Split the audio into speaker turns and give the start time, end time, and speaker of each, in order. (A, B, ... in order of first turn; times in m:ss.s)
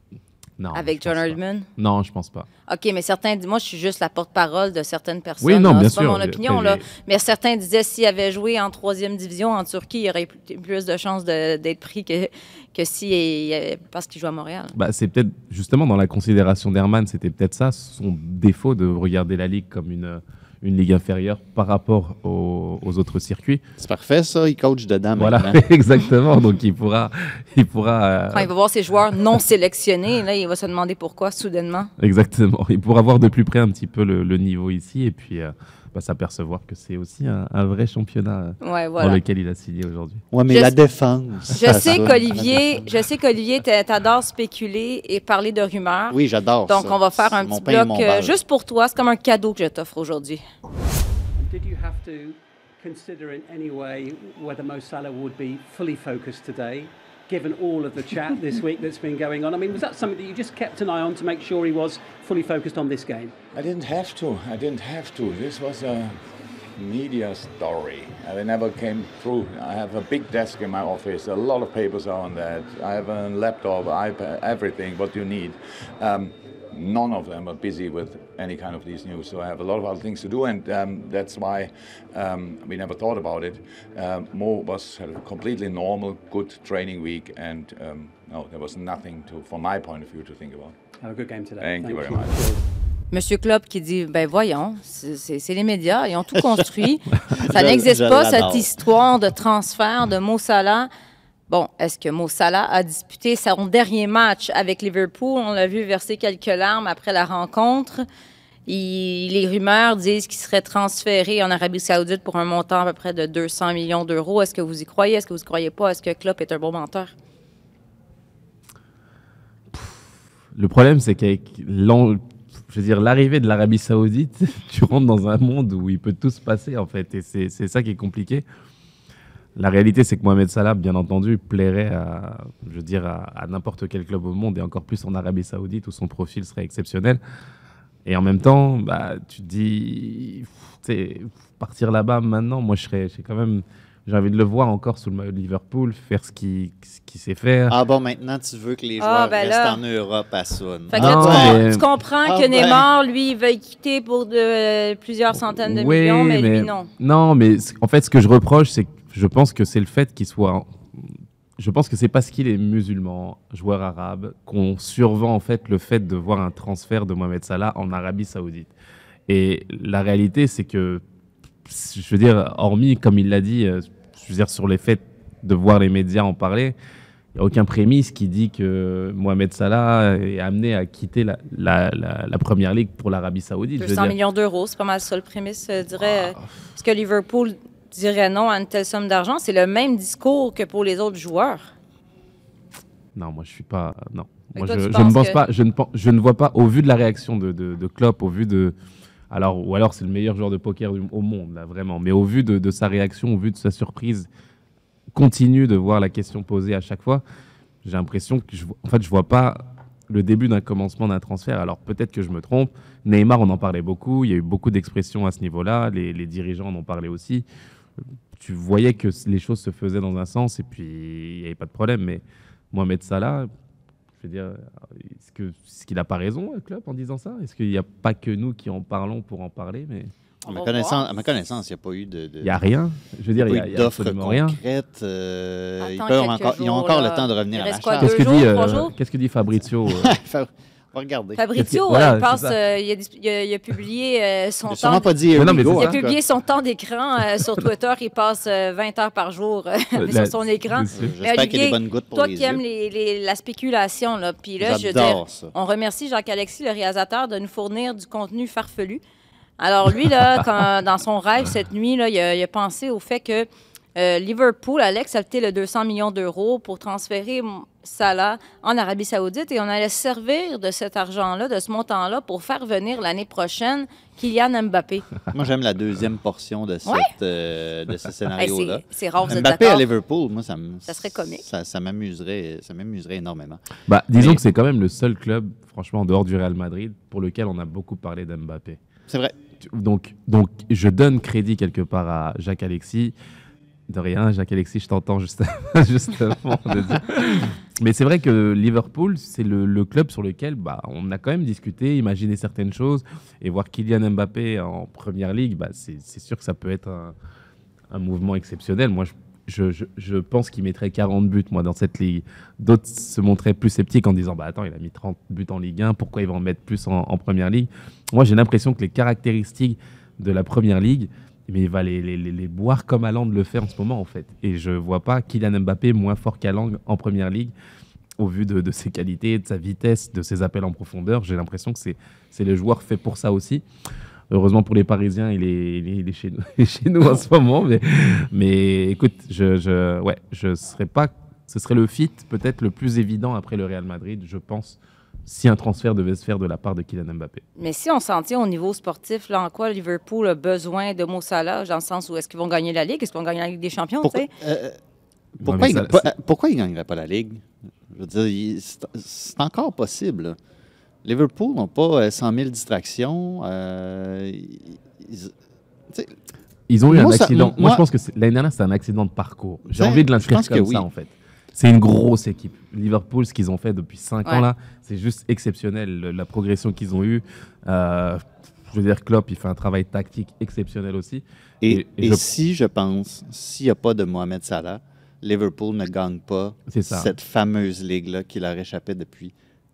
0:00.6-0:02.5 A
0:00.7-0:01.7 B
0:02.7-0:14.7 B
0:05.4-0:06.8 A
0:14.7-0:23.6 A
0:23.8-0:25.6 C
0:25.2-0:28.5 A
0:28.3-0:31.9 B
0:32.0-0:40.2 A
0:38.6-0:39.2 B
0:40.3-0:42.6 C
0:40.5-0:40.7 B
0:41.6-0:46.2 B
0:41.7-0:42.0 A
0:46.1-0:48.3 C
0:46.7-0:50.4 B
0:51.4-1:03.4 D
1:03.5-1:30.8 E
1:31.0-1:32.7 D
1:31.6-1:32.5 E
1:33.1-1:40.9 B
1:37.3-1:38.7 C
1:41.5-1:48.0 B
1:48.7-1:57.1 B
1:59.7-2:08.4 A
2:09.6-2:17.2 A
2:18.0-2:27.8 A
2:27.7-2:31.6 C
2:29.0-2:29.8 B
2:30.9-2:36.9 B
2:31.0-2:31.8 A
2:32.2-2:32.9 C
2:35.3-2:40.7 A
2:41.6-2:48.7 A
2:49.3-2:51.0 A
2:51.6-2:56.8 A
2:57.3-3:04.1 A
3:03.8-3:11.7 B
3:06.0-3:06.4 A
3:13.1-3:18.8 A
3:14.6-3:15.4 B
3:19.3-3:24.3 A
3:25.1-3:27.2 A
3:27.8-3:37.4 A
3:38.4-3:43.5 A
3:44.2-3:50.1 A
3:50.4-3:51.2 B
3:50.5-3:52.6 C
3:52.4-3:54.6 A
3:53.3-3:58.2 C
3:55.8-3:58.9 B
3:58.0-4:00.1 A
3:59.9-4:01.4 C
4:01.4-4:19.0 B
4:01.5-4:02.6 A
4:04.7-4:06.2 C
4:05.3-4:06.0 A
4:09.9-4:11.1 A
4:10.9-4:12.6 C
4:14.6-4:15.5 C
4:19.6-4:35.0 B
4:35.3-4:43.6 C
4:38.4-4:39.8 B
4:40.9-4:41.4 B
4:43.9-4:48.8 A
4:44.2-4:44.4 C
4:49.1-4:49.3 C
4:49.6-4:53.1 A
4:53.9-5:07.1 A
5:07.9-5:27.5 A
5:28.2-5:33.6 A
5:34.3-5:47.4 A
5:47.6-5:54.3 B
5:54.0-5:54.8 C
5:55.4-6:00.4 C
5:55.4-5:56.1 A
6:01.0-6:05.3 C
6:06.7-6:22.2 A
6:06.9-6:07.8 C
6:09.7-6:10.8 C
6:21.6-6:29.3 C
6:26.7-6:27.1 A